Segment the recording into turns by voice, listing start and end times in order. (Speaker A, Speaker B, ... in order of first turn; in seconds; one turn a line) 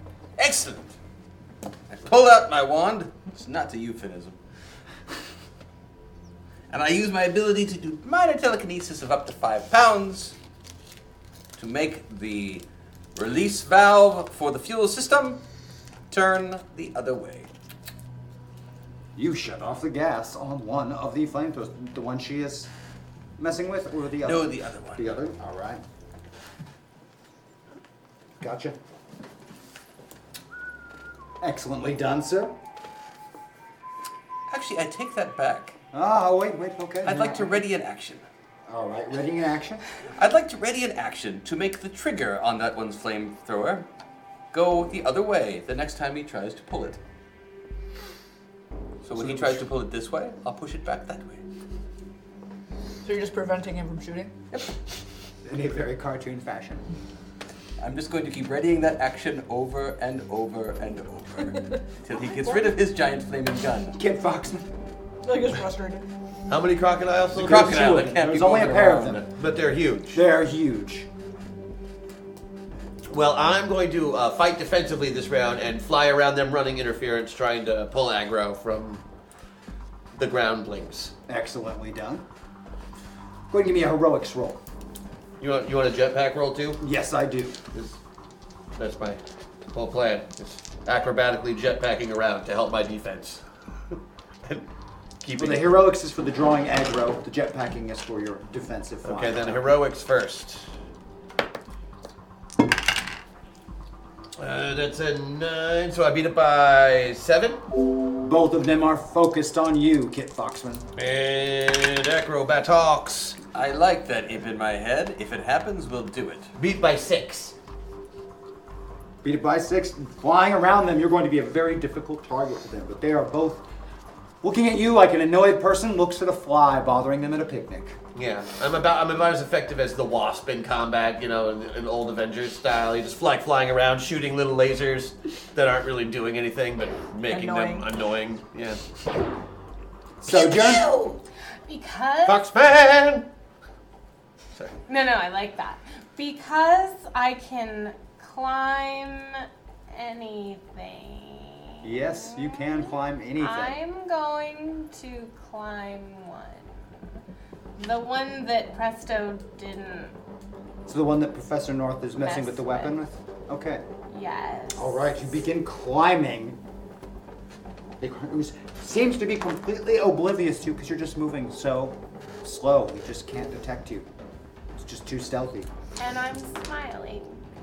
Speaker A: 0.4-0.9
Speaker A: 1.9-4.3
Speaker A: 6.7-10.3
Speaker A: 11.6-12.6
Speaker A: 13.2-15.4
Speaker A: 16.1-17.5
Speaker B: 19.1-22.7
Speaker B: 23.4-25.8
Speaker A: 24.2-25.2
Speaker B: 28.4-28.8
Speaker B: 31.4-32.5
Speaker A: 34.5-35.8
Speaker B: 35.9-37.6
Speaker A: 37.0-38.2
Speaker B: 38.7-39.8
Speaker A: 40.2-43.9
Speaker A: 44.5-47.0
Speaker A: 49.0-51.4
Speaker B: 49.1-49.6
Speaker C: 53.0-54.3
Speaker B: 55.4-56.8
Speaker A: 57.8-64.0
Speaker C: 62.1-62.7
Speaker B: 64.0-64.7
Speaker C: 65.2-66.0
Speaker D: 66.5-67.7
Speaker B: 67.3-69.2
Speaker A: 67.4-69.2
Speaker D: 69.1-70.2
Speaker B: 70.1-71.1
Speaker D: 73.1-79.0
Speaker D: 80.1-81.1
Speaker B: 81.3-82.2
Speaker B: 83.5-84.6
Speaker D: 85.4-86.8
Speaker B: 86.8-87.5
Speaker D: 88.7-93.4
Speaker D: 95.2-95.7
Speaker B: 95.3-99.7
Speaker D: 99.0-100.7
Speaker D: 104.4-107.6
Speaker B: 108.2-110.9
Speaker D: 111.0-113.4
Speaker A: 113.5-116.5
Speaker D: 116.5-117.5
Speaker B: 119.2-123.6
Speaker B: 124.4-128.0
Speaker D: 128.1-138.8
Speaker C: 137.3-137.9
Speaker B: 140.2-140.9
Speaker D: 140.2-141.2
Speaker E: 141.7-142.4
Speaker D: 142.2-143.2
Speaker E: 144.9-156.7
Speaker B: 151.8-153.8
Speaker E: 157.8-160.1
Speaker B: 160.8-163.8
Speaker E: 162.2-162.9
Speaker E: 164.1-164.9
Speaker B: 164.7-166.6
Speaker B: 168.0-174.1
Speaker B: 174.8-175.7
Speaker E: 176.0-177.4